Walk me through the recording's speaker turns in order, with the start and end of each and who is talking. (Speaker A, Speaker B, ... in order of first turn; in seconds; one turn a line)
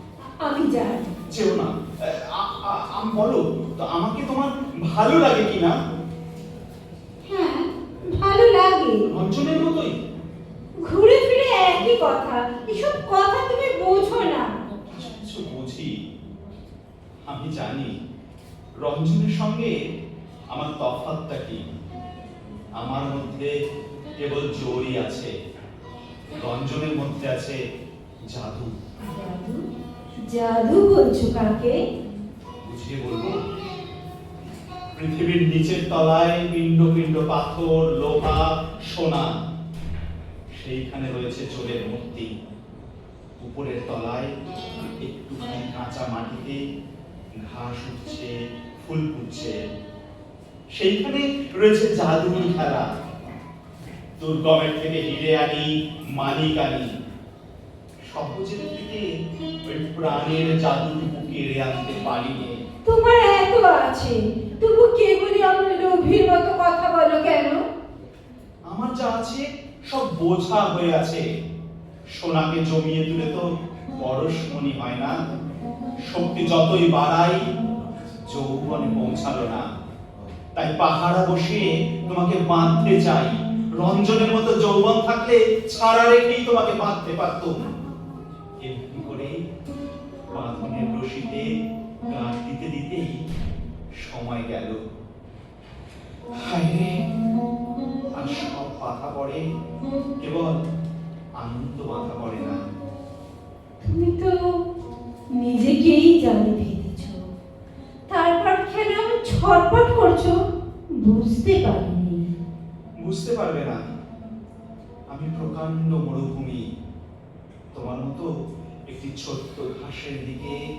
Speaker A: 0.3-1.1
Speaker B: 1.3-5.8
Speaker A: 7.3-9.0
Speaker B: 9.1-9.9
Speaker A: 10.8-14.5
Speaker B: 14.9-15.9
Speaker B: 17.3-17.9
Speaker B: 18.8-19.8
Speaker B: 20.5-21.6
Speaker B: 22.8-23.5
Speaker B: 24.2-25.3
Speaker B: 26.4-27.6
Speaker B: 28.3-28.7
Speaker A: 29.0-29.6
Speaker A: 30.2-31.8
Speaker B: 32.6-33.5
Speaker B: 35.0-39.3
Speaker B: 40.5-42.3
Speaker B: 43.4-44.3
Speaker B: 45.0-46.6
Speaker B: 47.4-49.6
Speaker B: 50.8-52.9
Speaker B: 54.2-56.9
Speaker B: 58.1-59.0
Speaker B: 59.7-62.6
Speaker A: 62.9-67.6
Speaker B: 68.7-71.2
Speaker B: 72.2-73.5
Speaker B: 74.0-75.2
Speaker B: 76.1-77.4
Speaker B: 78.2-79.7
Speaker B: 80.5-87.6
Speaker B: 88.6-89.4
Speaker B: 90.3-91.5
Speaker B: 92.1-93.2
Speaker B: 94.0-94.8
Speaker B: 96.3-97.1
Speaker B: 98.2-99.4
Speaker B: 100.2-100.6
Speaker B: 101.4-102.6
Speaker A: 103.8-104.3
Speaker A: 105.4-107.2
Speaker A: 108.1-110.4
Speaker A: 111.0-112.3
Speaker B: 113.0-113.9
Speaker B: 115.1-116.6
Speaker B: 117.7-118.3
Speaker B: 118.9-120.6